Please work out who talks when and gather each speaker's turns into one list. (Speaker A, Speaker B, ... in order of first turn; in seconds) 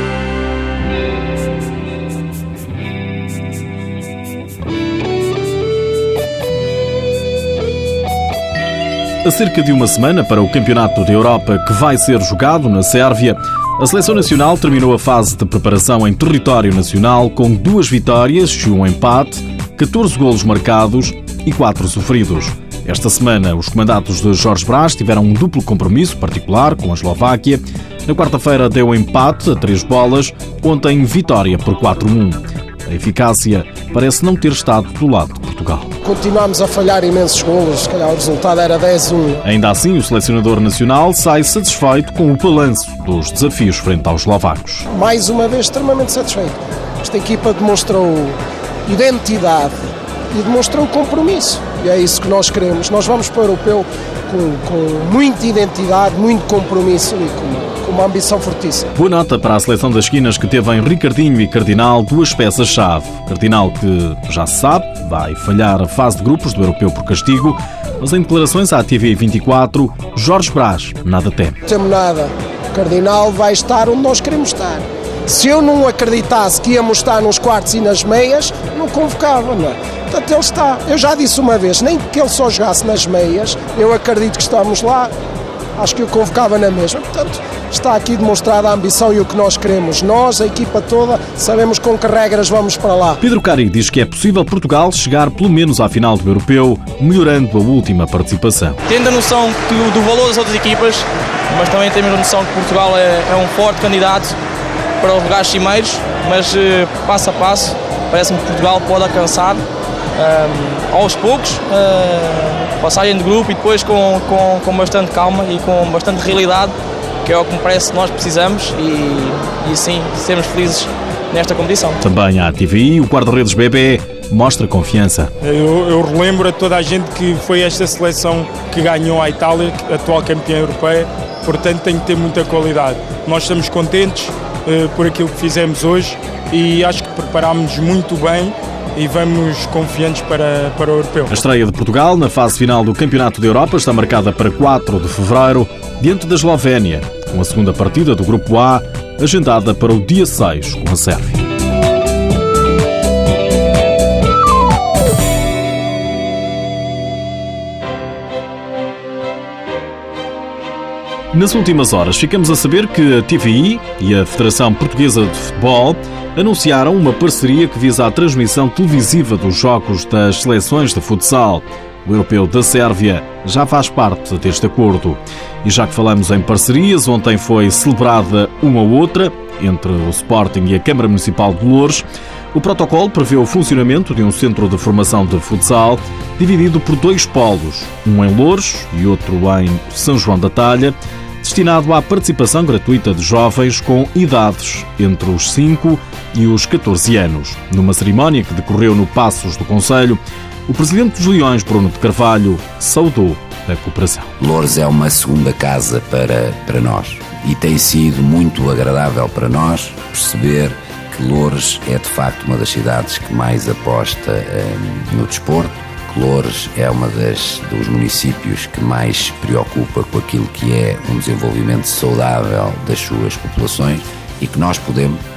Speaker A: 9.2-35.9, 39.4-44.9, 58.9-71.6, 93.2-98.8, 122.0-125.3, 141.3-151.4, 161.3-204.3
Speaker B: 36.0-39.4, 44.9-49.7, 50.3-58.9, 71.7-85.1, 85.8-93.2
Speaker C: 98.9-104.3, 105.0-109.6, 110.2-122.0
Speaker D: 125.4-141.4
Speaker E: 204.4-225.2